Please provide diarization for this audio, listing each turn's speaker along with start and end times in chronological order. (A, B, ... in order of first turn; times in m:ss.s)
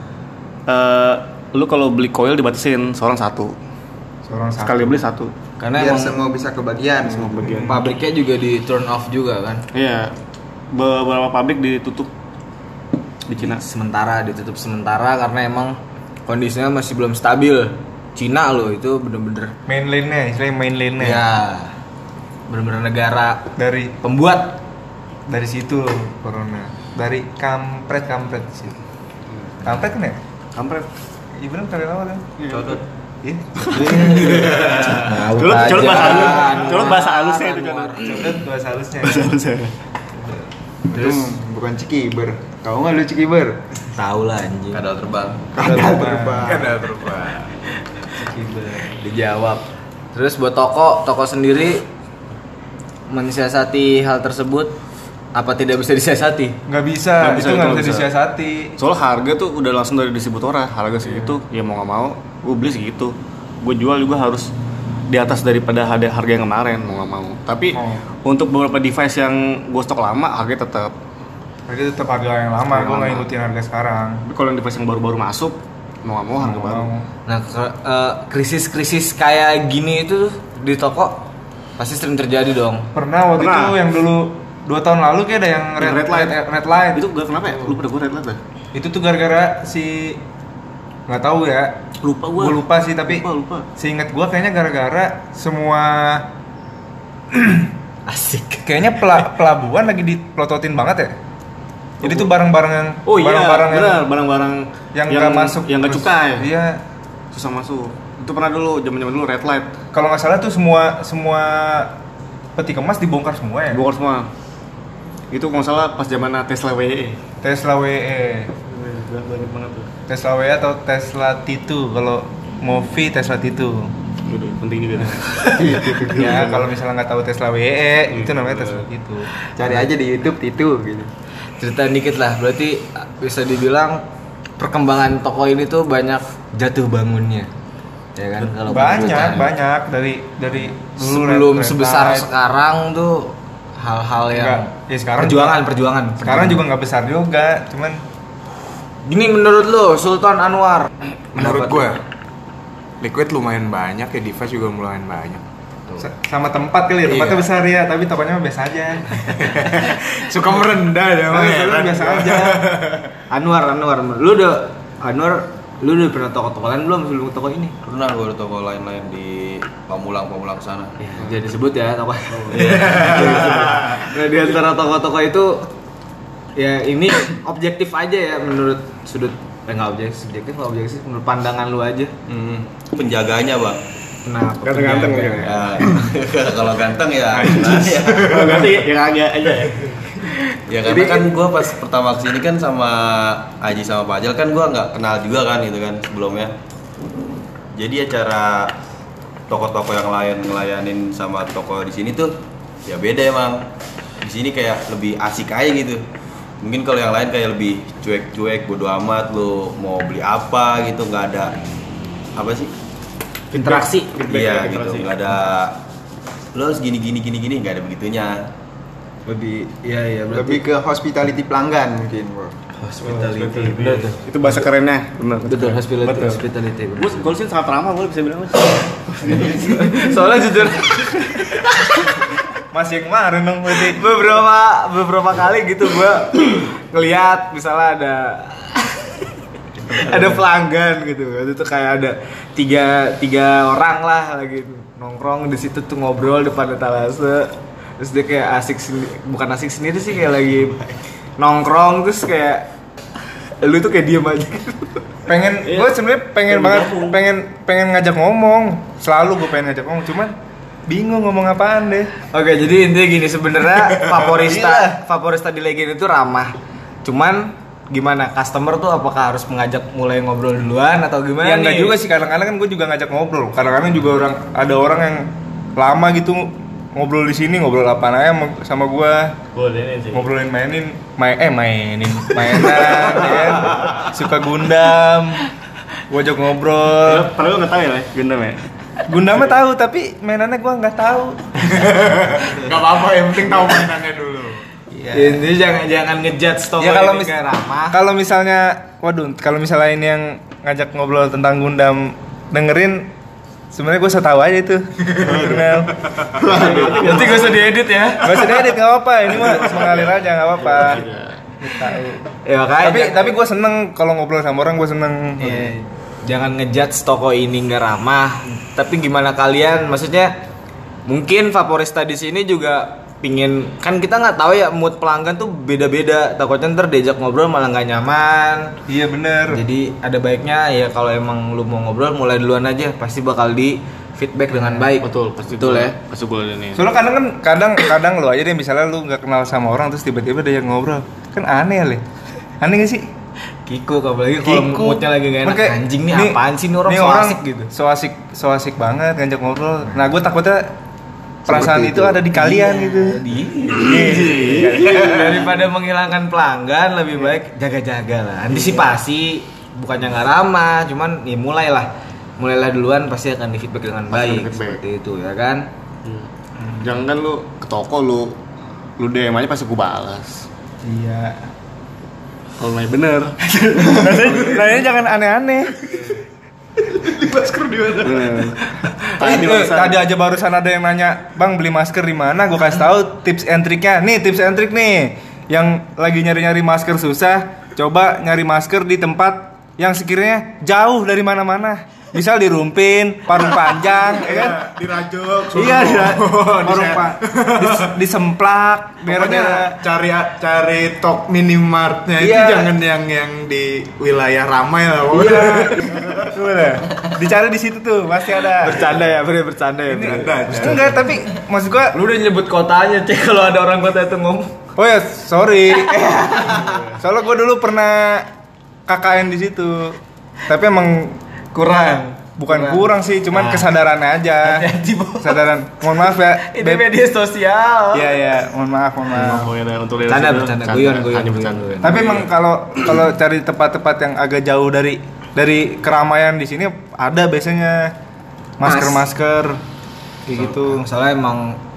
0:00.7-0:03.6 A
0:04.3-0:05.0 B
0:04.6-0:05.3 A
0:05.6-0:06.2 C
0:05.7-0:07.4 D
0:07.1-0:07.8 A
0:07.5-0:07.9 B
0:07.6-0:09.6 C
0:09.7-0:10.2 A
0:10.7-0:12.1 A
0:13.3-0:13.6 A
0:13.4-0:19.6 C
0:19.7-0:21.3 B
0:21.0-0:21.7 C
0:22.5-0:24.6 C
0:23.6-0:24.0 B
0:25.3-0:28.8 B
0:29.6-0:30.2 B
0:30.6-0:30.9 A
0:31.4-0:32.3 B
0:32.4-0:32.8 A
0:33.2-0:34.3 B
0:33.6-0:38.3 A
0:33.8-0:38.1 C
0:34.1-0:34.8 E
0:38.0-0:39.4 B
0:39.0-0:39.7 A
0:40.9-0:43.6 D
0:44.0-0:44.8 C
0:44.7-0:45.6 E
0:45.6-0:46.5 B
0:45.6-0:46.7 D
0:46.4-0:47.5 F
0:48.1-0:49.6 C
0:50.1-0:51.9 C
0:53.1-0:54.7 C
0:55.4-0:56.6 C
0:56.7-0:58.7 B
0:57.2-0:58.1 A
0:58.8-1:04.5 A
1:05.1-1:10.9 A
1:07.7-1:08.0 B
1:11.7-1:14.2 B
1:12.7-1:13.2 A
1:14.3-1:16.9 A
1:16.4-1:17.0 B
1:17.3-1:21.2 C
1:21.8-1:22.9 C
1:23.0-1:27.8 B
1:23.4-1:23.8 A
1:25.8-1:26.4 A
1:26.9-1:28.4 A
1:28.7-1:30.2 B
1:31.1-1:31.8 B
1:32.0-1:33.7 A
1:32.4-1:33.3 B
1:33.8-1:36.3 B
1:37.3-1:37.7 B
1:38.1-1:39.0 C
1:38.7-1:41.1 B
1:42.0-1:44.1 B
1:42.0-1:42.3 A
1:43.1-1:46.5 A
1:45.0-1:46.8 B
1:47.3-1:49.7 A
1:49.9-1:52.0 B
1:52.6-1:53.8 B
1:53.7-1:54.3 A
1:55.3-1:57.2 A
1:57.4-1:58.5 B
1:58.7-1:59.9 A
2:00.1-2:03.9 B
2:04.3-2:06.7 A
2:05.0-2:09.3 B
2:05.6-2:06.4 D
2:08.1-2:08.8 A
2:09.6-2:11.1 D
2:11.6-2:14.0 C
2:14.6-2:17.5 C
2:18.2-2:19.5 C
2:18.6-2:22.3 B
2:21.0-2:26.6 C
2:24.3-2:25.6 B
2:26.2-2:28.0 B
2:29.1-2:31.9 C
2:31.4-2:32.0 F
2:33.0-2:35.4 F
2:36.0-2:39.9 B
2:37.0-2:37.5 F
2:39.4-2:43.1 F
2:41.4-2:42.6 B
2:41.4-2:42.6 C
2:43.3-2:47.8 C
2:47.8-2:51.0 E
2:51.0-2:55.7 C
2:52.5-2:53.8 E
2:52.7-2:54.0 F
2:56.6-3:02.1 C
3:02.3-3:03.8 E
3:04.2-3:05.9 C
3:04.7-3:05.4 B
3:04.7-3:05.4 A
3:05.4-3:08.6 E
3:07.3-3:08.6 F
3:08.3-3:10.0 A
3:10.7-3:16.6 E
3:10.8-3:11.3 C
3:17.8-3:18.7 E
3:19.5-3:23.7 E
3:24.2-3:26.0 E
3:26.6-3:31.6 E
3:32.4-3:32.7 E
3:33.5-3:35.2 A
3:33.5-3:34.2 C
3:34.2-3:35.8 E
3:36.5-3:38.5 E
3:39.3-3:40.6 C
3:40.3-3:42.5 D
3:42.8-3:44.2 C
3:43.1-3:50.2 A
3:45.4-3:47.3 C
3:49.3-3:52.3 C
3:52.7-3:54.0 B
3:53.9-3:59.2 C
3:59.9-4:12.7 C
4:13.6-4:15.0 C
4:15.3-4:20.4 B
4:15.6-4:15.9 A
4:16.5-4:17.2 A
4:20.9-4:22.1 B
4:22.3-4:32.0 C
4:31.4-4:39.4 B
4:39.6-4:40.3 A
4:40.1-4:45.4 B
4:43.8-4:44.1 F
4:46.1-4:47.3 B
4:47.0-4:48.6 A
4:49.1-4:52.1 B
4:51.7-4:54.6 F
4:54.9-4:55.5 B
4:55.1-4:58.0 C
4:56.8-4:57.4 B
4:57.9-5:03.1 B
5:03.7-5:06.0 B
5:06.4-5:08.7 C
5:06.4-5:07.7 A
5:06.7-5:06.9 D
5:08.2-5:11.1 B
5:09.3-5:11.4 A
5:11.6-5:12.2 B
5:12.4-5:13.3 C
5:12.8-5:15.7 B
5:15.4-5:20.3 C
5:21.1-5:28.8 C
5:28.9-5:29.6 B
5:29.5-5:36.0 C
5:35.0-5:36.8 A
5:36.8-5:42.0 B
5:42.6-5:43.0 B
5:43.7-5:47.7 C
5:44.4-5:50.7 B
5:51.5-5:53.3 B
5:51.5-6:05.7 C
5:53.7-5:54.9 A
5:53.8-5:54.9 B
6:04.1-6:04.8 A
6:06.6-6:06.9 B
6:06.8-6:08.4 A
6:09.0-6:10.5 A
6:10.8-6:11.4 B
6:12.6-6:14.7 A
6:13.7-6:16.2 B
6:17.0-6:18.3 F
6:18.0-6:20.0 A
6:19.1-6:34.6 B
6:33.4-6:37.9 F
6:35.6-6:39.8 B
6:39.0-6:46.3 F
6:42.2-6:42.7 B
6:45.2-6:45.9 C
6:46.3-6:49.0 B
6:48.6-6:51.1 C
6:49.9-6:52.0 B
6:50.0-6:51.1 F
6:51.9-6:54.6 C
6:54.8-6:58.3 B
6:55.8-6:56.8 C
6:58.9-7:01.2 B
7:01.5-7:03.6 C
7:02.4-7:06.9 B
7:04.4-7:08.2 C
7:07.9-7:09.5 B
7:09.1-7:12.3 A
7:10.1-7:12.1 C
7:11.8-7:17.9 B
7:18.6-7:19.6 B
7:18.6-7:19.0 C
7:20.3-7:21.6 C
7:20.3-7:20.8 B